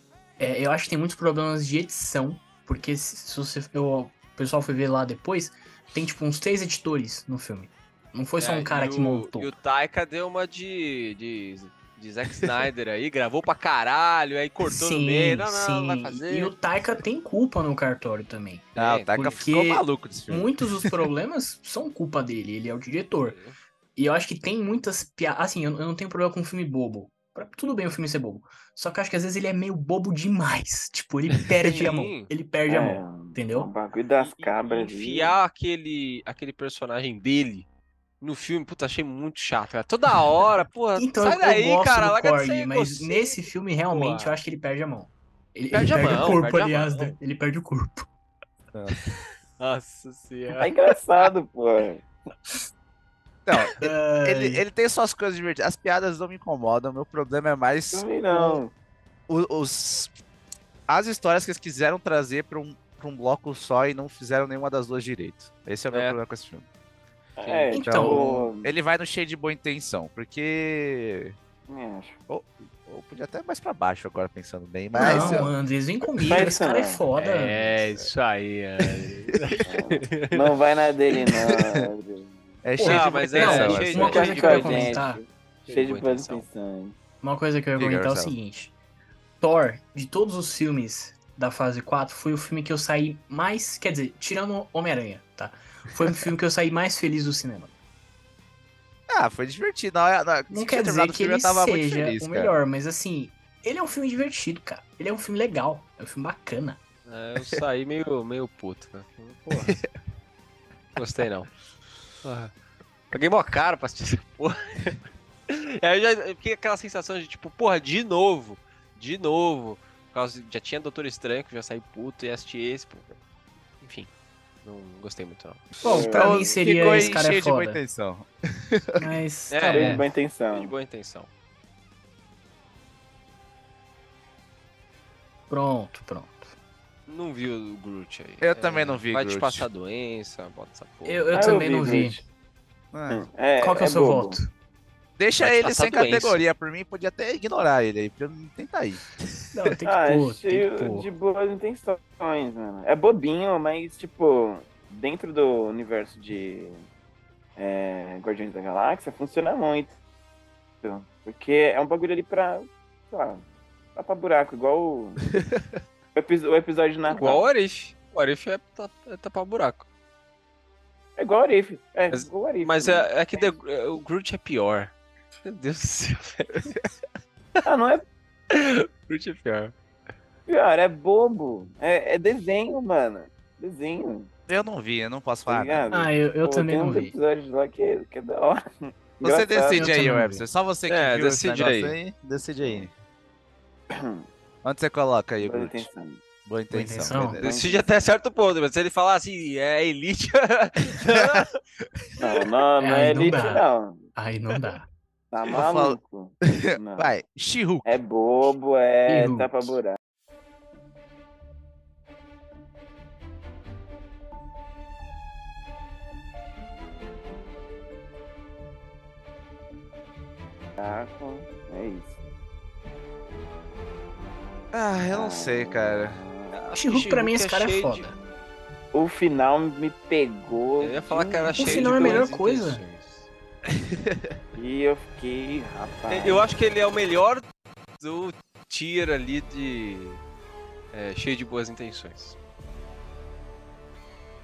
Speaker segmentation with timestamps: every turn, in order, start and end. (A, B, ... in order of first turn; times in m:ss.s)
0:00.4-0:09.5 A
0:08.4-0:16.5 B
0:14.6-0:23.4 A
0:18.8-0:19.4 B
0:18.8-0:20.9 C
0:23.2-0:23.6 B
0:24.0-0:33.7 A
0:31.6-0:32.3 B
0:32.7-0:35.4 D
0:34.2-0:37.7 B
0:38.2-0:44.4 B
0:41.0-0:48.1 A
0:45.7-0:47.2 B
0:48.9-0:50.7 B
0:50.6-0:52.0 D
0:53.5-0:58.1 C
0:53.8-0:54.6 A
0:57.9-0:58.7 D
0:58.3-0:58.6 A
0:59.3-1:00.1 C
1:00.9-1:06.7 C
1:05.9-1:06.2 B
1:07.4-1:08.7 D
1:07.4-1:07.8 B
1:07.7-1:08.5 A
1:07.8-1:11.4 C
1:11.7-1:12.2 D
1:12.3-1:15.5 C
1:15.0-1:17.9 A
1:15.0-1:15.4 D
1:16.2-1:17.0 D
1:17.2-1:20.6 B
1:18.9-1:19.6 C
1:19.6-1:22.4 D
1:21.5-1:21.8 C
1:22.6-1:24.7 C
1:22.8-1:25.2 A
1:22.8-1:25.0 B
1:24.0-1:27.0 D
1:25.7-1:26.5 B
1:27.2-1:28.8 A
1:27.8-1:28.4 C
1:29.4-1:37.7 A
1:39.1-1:42.6 C
1:40.5-1:46.8 A
1:47.1-1:49.8 B
1:49.5-1:49.9 C
1:51.0-1:51.5 B
1:52.2-1:52.5 B
1:53.1-2:03.1 B
2:03.8-2:04.1 B
2:04.6-2:05.7 B
2:05.8-2:07.8 A
2:05.8-2:06.6 D
2:06.1-2:09.1 C
2:09.0-2:10.0 A
2:09.5-2:11.3 B
2:09.7-2:10.7 D
2:15.5-2:16.5 A
2:17.1-2:21.6 B
2:18.4-2:19.7 C
2:21.1-2:22.2 A
2:21.3-2:22.2 D
2:22.9-2:23.2 C
2:23.1-2:24.4 D
2:23.6-2:24.5 A
2:25.2-2:29.7 C
2:25.4-2:26.4 B
2:29.5-2:31.1 A
2:29.8-2:36.8 D
2:37.6-2:40.0 D
2:40.8-2:45.2 D
2:45.4-2:45.7 C
2:46.2-2:47.5 D
2:47.1-2:49.9 B
2:51.2-2:53.5 D
2:52.1-2:56.8 B
2:57.6-2:58.0 D
2:58.5-2:59.7 B
3:00.5-3:04.3 D
3:04.5-3:05.9 C
3:05.5-3:09.9 D
3:05.9-3:07.2 A
3:09.2-3:12.9 C
3:09.7-3:10.4 A
3:10.9-3:12.0 B
3:12.6-3:12.9 D
3:13.9-3:14.3 D
3:14.6-3:15.9 C
3:15.4-3:16.2 D
3:16.4-3:17.5 C
3:16.7-3:17.4 A
3:17.4-3:17.9 D
3:17.4-3:21.6 B
3:21.0-3:21.5 C
3:22.2-3:24.1 D
3:22.8-3:24.9 A
3:25.3-3:27.1 D
3:25.5-3:26.0 C
3:26.6-3:27.9 C
3:27.8-3:30.0 D
3:29.1-3:29.8 A
3:40.8-3:42.2 D
3:44.7-3:46.8 C
3:45.1-3:46.6 D
3:46.7-3:48.2 A
3:46.8-3:48.1 B
3:48.9-3:52.3 D
3:50.8-3:53.3 B
3:51.6-3:52.8 A
3:54.6-3:56.5 D
3:56.1-3:57.4 B
3:58.0-4:00.2 B
4:00.9-4:02.4 B